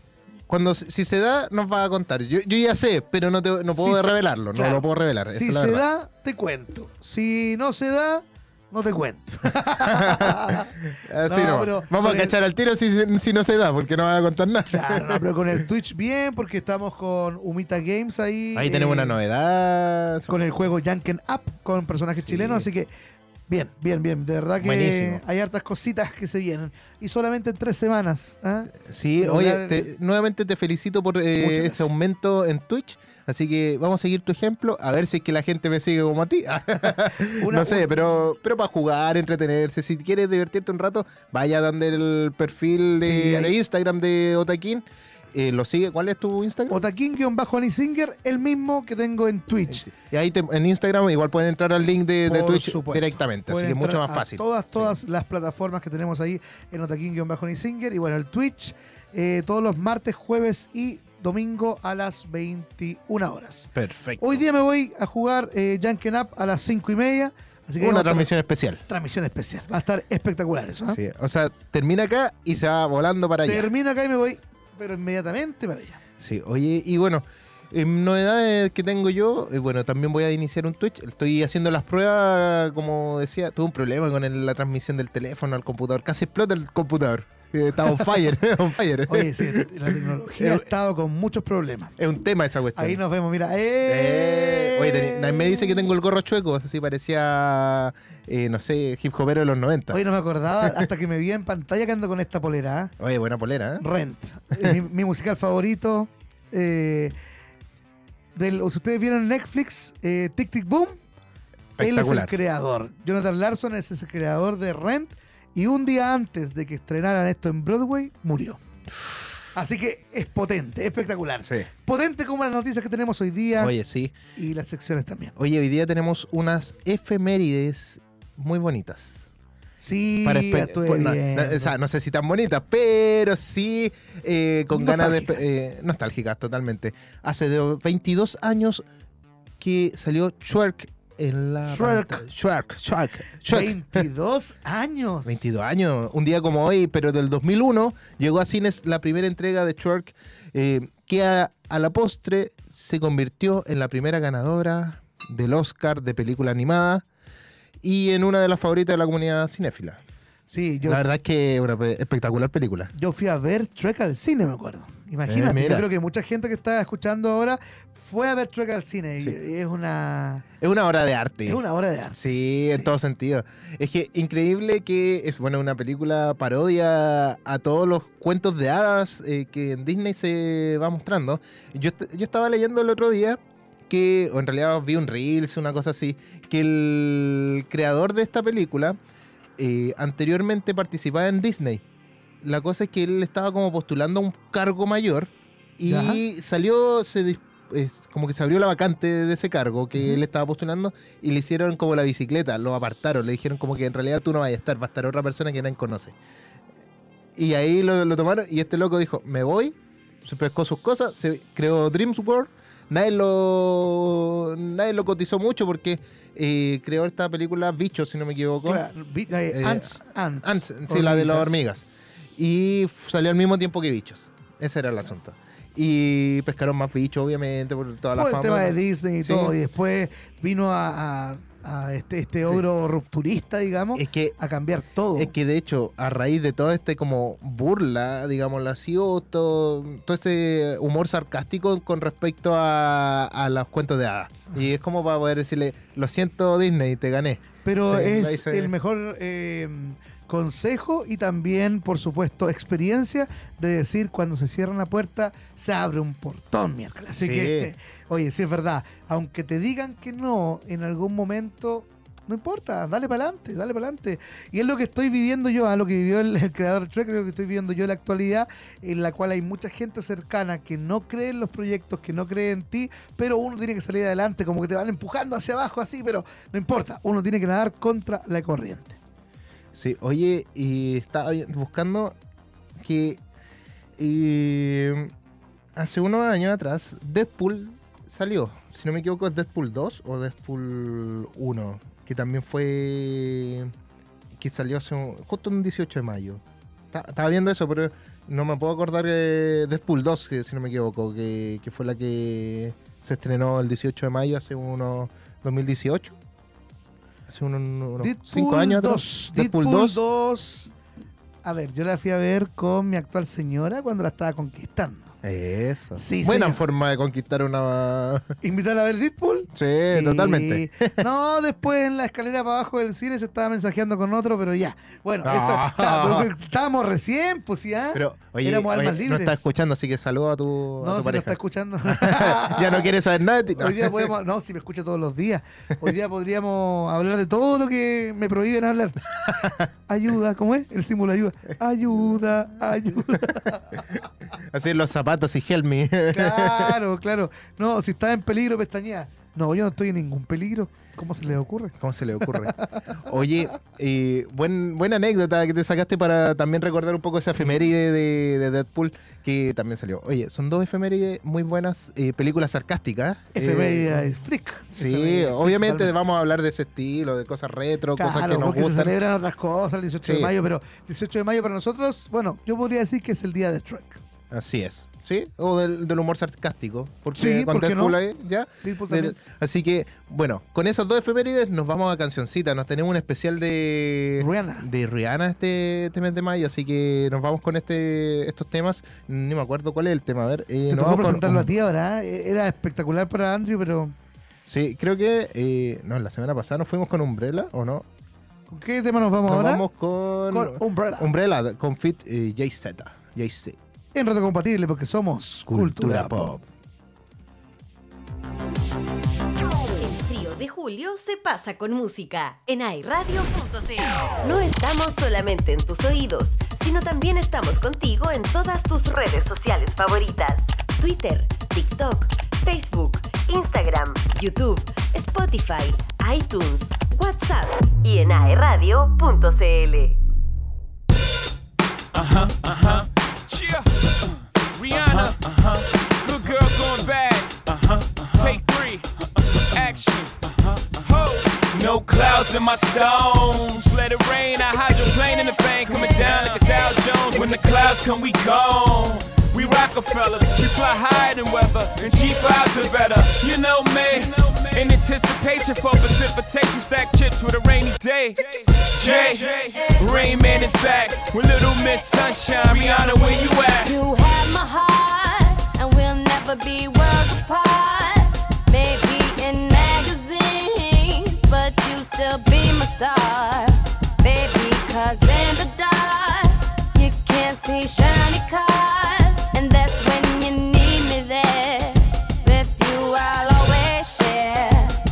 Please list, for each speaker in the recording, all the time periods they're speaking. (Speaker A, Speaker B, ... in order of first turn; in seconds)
Speaker A: 0.5-5.8, 9.8-15.2, 18.5-20.3, 22.2-22.7, 24.6-25.2, 28.7-46.8, 49.7-55.0, 63.7-64.4, 67.8-68.8, 70.9-73.7, 76.2-90.7, 92.0-93.0, 93.8-100.0, 100.6-100.8, 103.0-103.8, 111.8-112.3, 123.6-124.1, 125.4-129.3, 130.2-138.8, 139.6-144.1, 145.2-157.0, 157.8-160.0, 160.8-162.9, 165.3-165.9, 170.6-171.6, 172.1-189.0, 189.6-191.8, 192.4-206.2, 207.3-218.8, 219.5-229.5, 233.9-234.3, 235.1-248.7, 257.2-257.7, 279.7-282.1, 282.8-283.2, 284.0-285.1, 285.8-293.7, 294.4-306.1, 307.3-310.0, 315.2-318.3, 319.5-321.0, 325.2-326.3, 327.9-334.1, 339.3-339.6, 343.9-346.8, 351.8-364.1, 364.7-368.9, 370.0-370.3, 374.3-391.5, 394.5-397.9, 399.2-403.6, 405.5-406.4
Speaker B: 3.7-10.8, 11.3-12.3, 14.7-19.1, 20.3-22.9, 23.5-29.9, 31.4-31.9, 37.2-37.9, 43.0-43.5, 46.7-49.9, 52.3-68.3, 68.9-71.0, 73.4-76.0, 89.1-91.9, 92.7-95.9, 99.9-102.9, 103.8-107.1, 108.3-111.0, 111.8-118.6, 119.5-123.7, 124.3-125.3, 129.8-131.7, 134.7-135.5, 141.7-142.2, 143.4-145.4, 160.5-161.0, 162.9-170.4, 171.4-172.9, 195.9-196.2, 218.6-221.6, 228.1-235.3, 247.6-279.0, 308.0-310.7, 311.4-315.2, 315.9-316.6, 318.4-329.4, 330.8-332.9, 333.5-344.0, 346.1-352.8, 357.4-357.6, 363.3-365.9, 368.0-374.0, 377.1-378.0, 378.6-379.2, 384.2-384.7, 390.7-393.9, 398.5-399.6, 400.3-401.1, 403.9-406.4
Speaker C: 409.8-430.0
Speaker D: 431.9-463.7
Speaker E: 459.6-460.3, 463.6-484.8